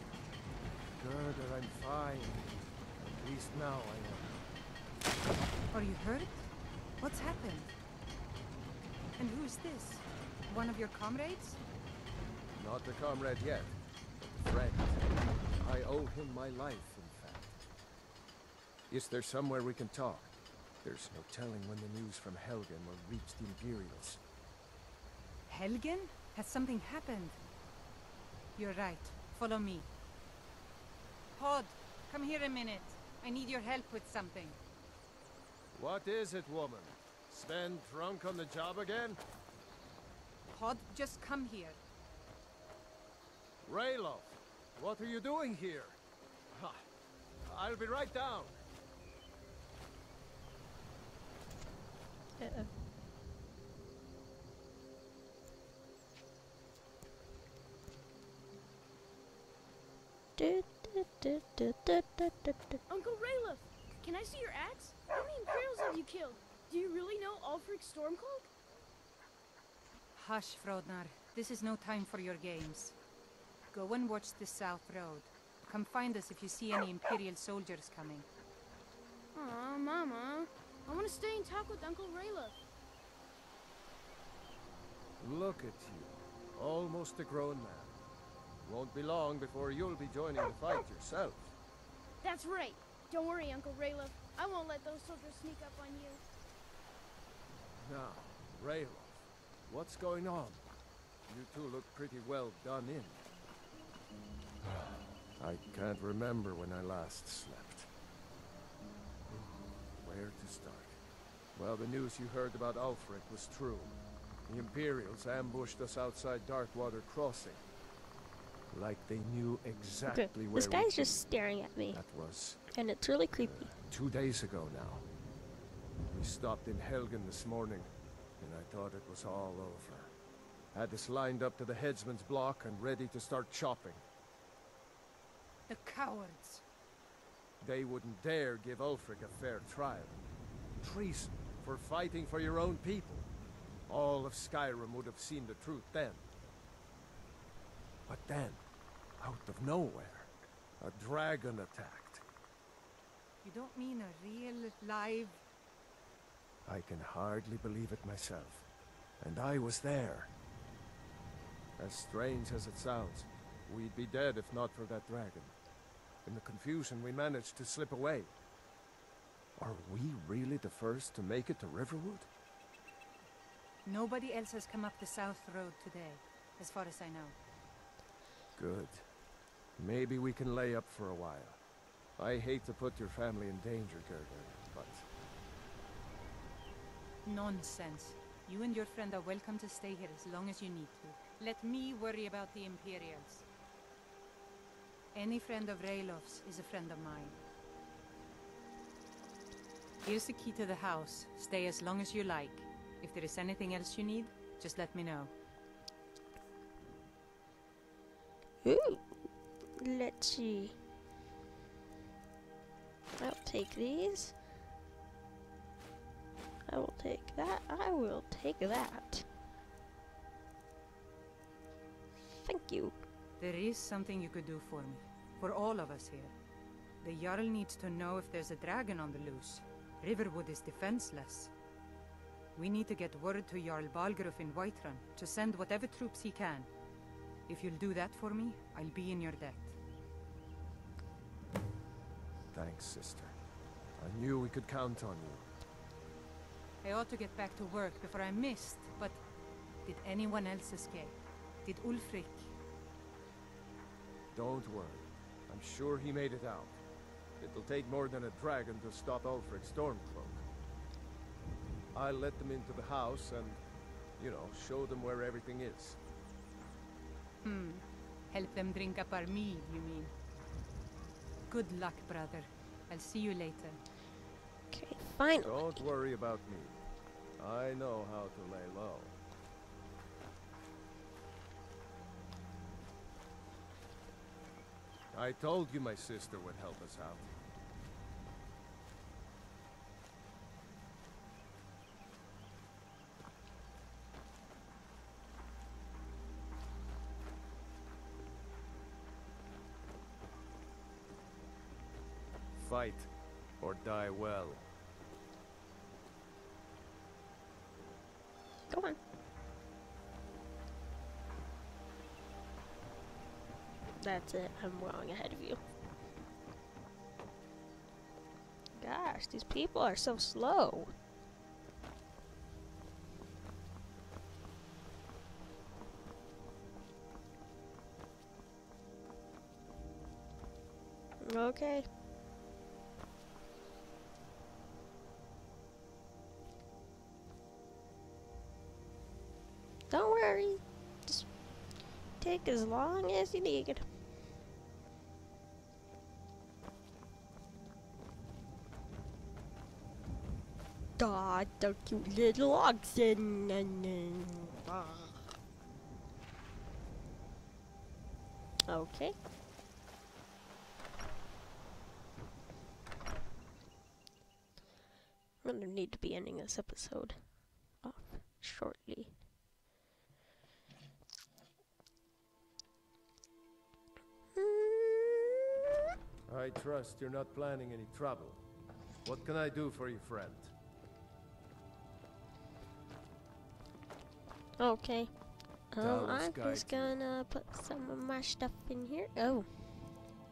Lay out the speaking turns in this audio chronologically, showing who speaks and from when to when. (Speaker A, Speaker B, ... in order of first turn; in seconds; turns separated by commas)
Speaker A: 1.0-4.4, Speaker B: 5.7-7.7, Speaker B: 9.2-11.6, Speaker A: 12.6-15.0, Speaker A: 15.6-17.6, Speaker A: 18.9-24.2, Speaker B: 25.5-27.4, Speaker B: 28.6-29.9, Speaker B: 31.3-34.6, Speaker A: 35.7-39.2, Speaker B: 40.5-41.8, Speaker A: 43.6-46.0, Speaker A: 46.5-46.8, Speaker A: 47.4-48.6, Speaker C: 52.4-52.7, Speaker C: 60.4-62.8, Speaker D: 62.9-68.5, Speaker B: 70.1-73.0, Speaker B: 73.7-78.3, Speaker D: 79.3-82.5, Speaker A: 85.2-87.9, Speaker A: 88.6-91.5, Speaker D: 92.2-96.2, Speaker A: 97.8-100.6, Speaker A: 101.3-103.3, Speaker A: 104.6-107.9, Speaker A: 109.3-111.0, Speaker A: 111.5-113.9, Speaker A: 114.5-117.6, Speaker A: 118.7-121.1, Speaker C: 120.1-122.0, Speaker A: 121.9-122.6, Speaker C: 122.7-123.7, Speaker A: 123.3-125.0, Speaker A: 126.1-130.1, Speaker A: 130.7-134.0, Speaker B: 135.7-136.6, Speaker A: 137.6-140.2, Speaker A: 140.8-143.3, Speaker A: 143.9-146.2, Speaker A: 148.1-148.6, Speaker A: 149.2-152.2, Speaker B: 153.4-155.4, Speaker A: 156.6-158.7, Speaker A: 159.2-160.3, Speaker A: 161.8-165.5, Speaker A: 166.2-168.3, Speaker A: 169.6-172.3, Speaker B: 173.8-177.3, Speaker A: 178.6-179.0, Speaker A: 179.8-181.6, Speaker A: 182.2-185.1, Speaker B: 187.2-193.4, Speaker B: 195.1-197.4, Speaker B: 200.0-205.3, Speaker C: 208.6-209.3, Speaker C: 209.8-210.7, Speaker C: 213.2-214.3, Speaker C: 216.7-219.3, Speaker C: 222.4-223.0, Speaker B: 223.4-226.3, Speaker B: 227.0-231.5, Speaker B: 232.6-236.7, Speaker B: 237.5-239.7, Speaker A: 242.5-243.3, Speaker A: 244.0-245.5, Speaker B: 246.8-249.2, Speaker B: 249.8-252.5, Speaker A: 254.3-256.8, Speaker A: 257.4-260.4, Speaker A: 261.9-263.6, Speaker A: 264.2-266.0, Speaker B: 267.4-270.1, Speaker B: 271.5-273.8, Speaker C: 274.7-275.8, Speaker A: 275.4-276.8, Speaker A: 277.4-279.1, Speaker A: 285.1-287.4, Speaker A: 302.5-304.7, Speaker C: 308.7-309.0, Speaker C: 314.0-315.6, Speaker C: 318.8-320.9, Speaker C: 331.2-331.9, Speaker C: 339.9-341.3, Speaker C: 342.2-343.8, Speaker C: 351.0-355.3, Speaker C: 358.7-359.1, Speaker C: 365.4-367.2, Speaker C: 367.8-369.1, Speaker C: 374.4-375.4, Speaker A: 376.3-378.4, Speaker A: 379.0-380.5, Speaker C: 384.6-385.1, Speaker C: 385.7-389.5, Speaker A: 385.8-387.0